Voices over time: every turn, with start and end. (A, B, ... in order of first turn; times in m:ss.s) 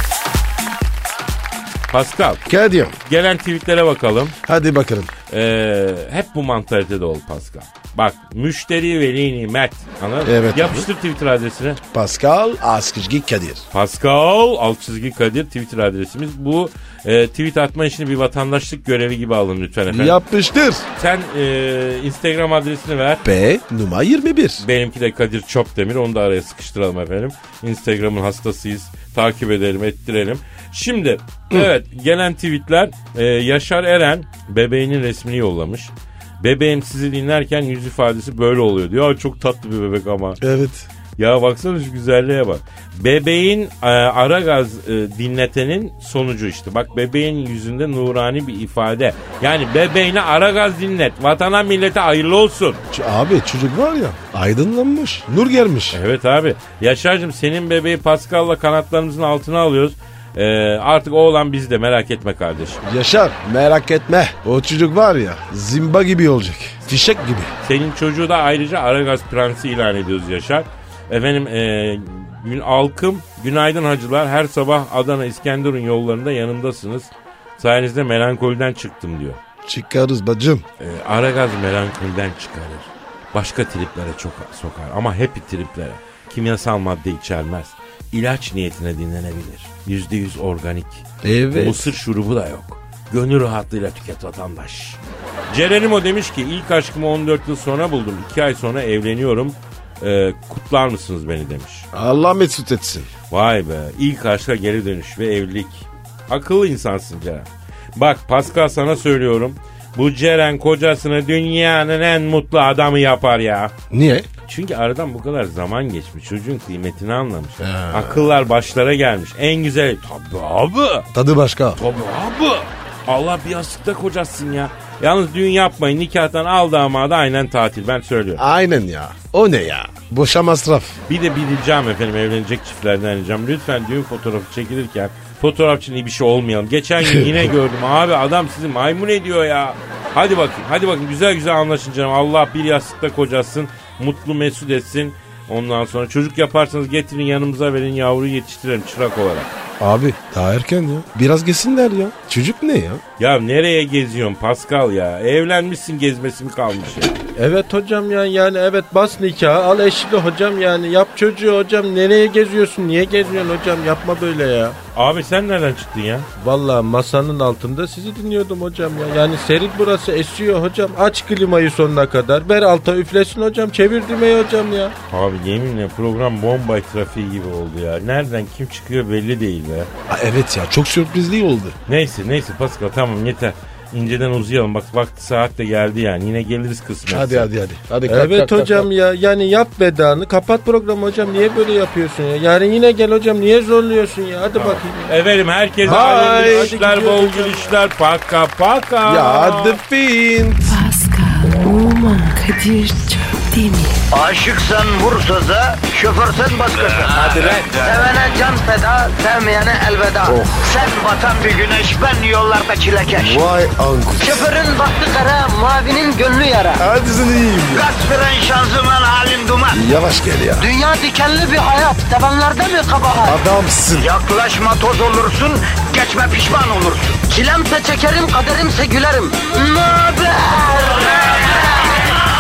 0:01.9-0:02.5 A
0:02.5-0:03.0 B
0:03.0-0:04.4 A
0:04.4-0:05.1 B
0:05.3-0:11.8 A
0:10.2-0:10.9 B
0:11.9-0:13.6 B
0:13.7-0:20.2 A
0:19.9-0:20.9 B
0:21.0-0:23.2 A
0:23.2-0:24.6 B
0:24.6-0:40.4 A
0:40.4-0:40.9 B
0:41.2-0:52.8 A
0:52.9-0:56.0 B
0:55.9-1:02.8 A
1:02.8-1:07.5 B
1:07.6-1:19.4 A
1:19.6-1:20.6 B
1:20.8-1:41.9 A
1:31.2-1:31.9 B
1:41.9-1:43.1 B
1:43.3-1:53.7 A
1:53.9-1:54.3 B
1:54.5-2:01.1 A
1:57.6-1:58.3 B
2:01.1-2:01.8 B
2:01.8-2:08.4 A
2:08.4-2:11.0 B
2:11.1-2:29.5 A
2:29.8-2:33.0 B
2:33.2-2:37.2 A
2:37.4-2:44.8 C
2:44.9-2:46.3 A
2:46.4-2:54.9 C
2:55.1-2:59.9 A
3:00.1-3:01.8 B
3:01.9-3:07.5 A
3:07.0-3:08.9 B
3:08.1-3:15.2 C
3:14.5-3:19.8 A
3:15.8-3:16.8 B
3:15.8-3:17.8 C
3:19.0-3:20.8 B
3:20.6-3:24.0 D
3:24.1-3:33.5 E
3:30.2-3:30.7 B
3:33.1-3:34.4 B
3:34.2-3:36.8 E
3:36.8-3:37.9 B
3:37.7-3:39.8 E
3:39.7-3:40.7 B
3:40.6-3:43.4 E
3:43.2-3:44.1 B
3:43.9-3:52.0 E